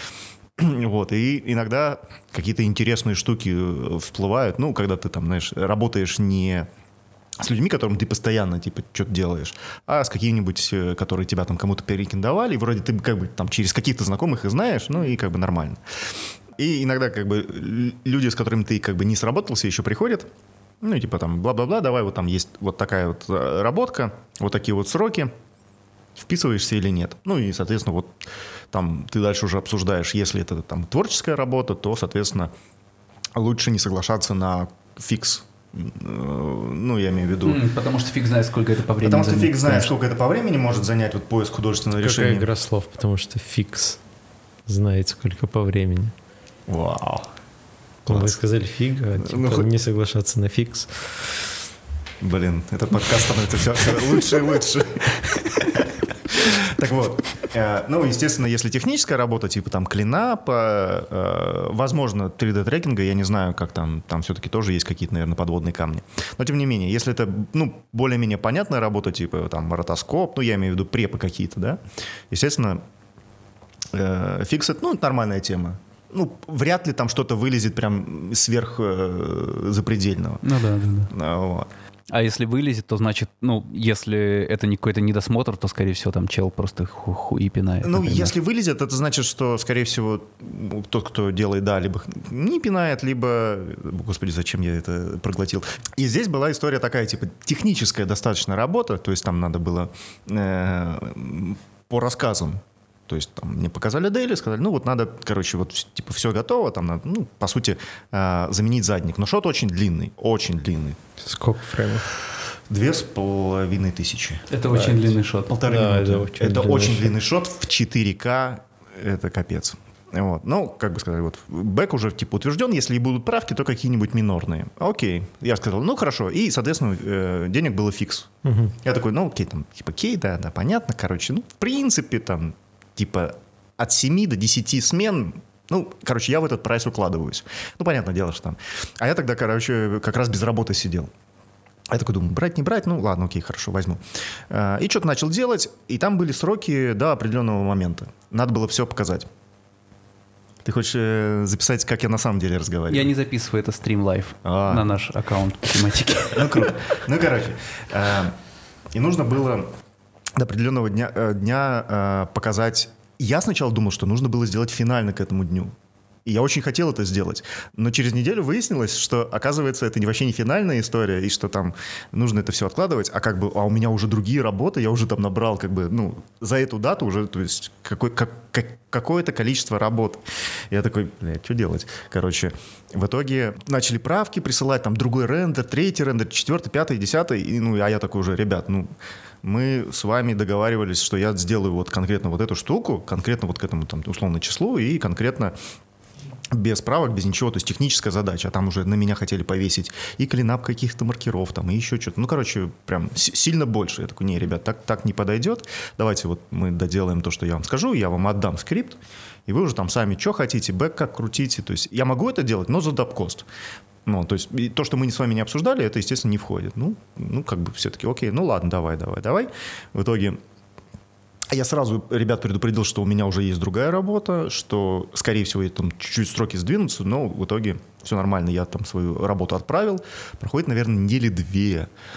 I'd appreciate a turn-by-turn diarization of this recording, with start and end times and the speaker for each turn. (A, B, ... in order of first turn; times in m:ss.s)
0:00.6-0:06.7 A
0:07.4-0:15.8 A
0:16.6-0:20.3 A
0:20.8-0:25.3 A
0:26.2-0:28.2 A
0:28.7-0:32.5 A
0:33.4-0:37.6 A
0:37.4-0:39.9 B
0:39.0-0:42.5 A
0:41.9-0:44.0 C
0:44.7-0:46.1 C
0:46.7-0:47.3 A
0:48.1-0:48.4 A
0:48.1-0:51.4 C
0:49.2-0:49.7 A
0:52.2-1:12.8 A
1:13.9-1:20.4 A
1:20.4-1:21.1 B
1:21.1-1:21.7 A
1:22.1-1:28.3 B
1:27.8-1:51.0 A
1:51.2-1:52.1 C
1:52.7-1:54.5 A
1:54.5-1:55.6 B
1:54.7-1:55.0 C
1:55.5-2:08.3 A
1:55.6-1:57.2 C
2:08.4-2:08.8 C
2:08.8-2:21.1 A
2:21.9-2:29.3 A
2:30.6-2:33.1 A
2:32.9-2:36.7 B
2:34.4-2:34.9 A
2:36.3-2:38.4 A
2:38.9-2:39.7 A
2:40.4-2:45.7 A
2:46.3-3:08.9 A
3:09.4-3:15.6 A
3:16.5-3:33.5 A
3:34.1-3:40.4 A
3:41.5-3:51.9 A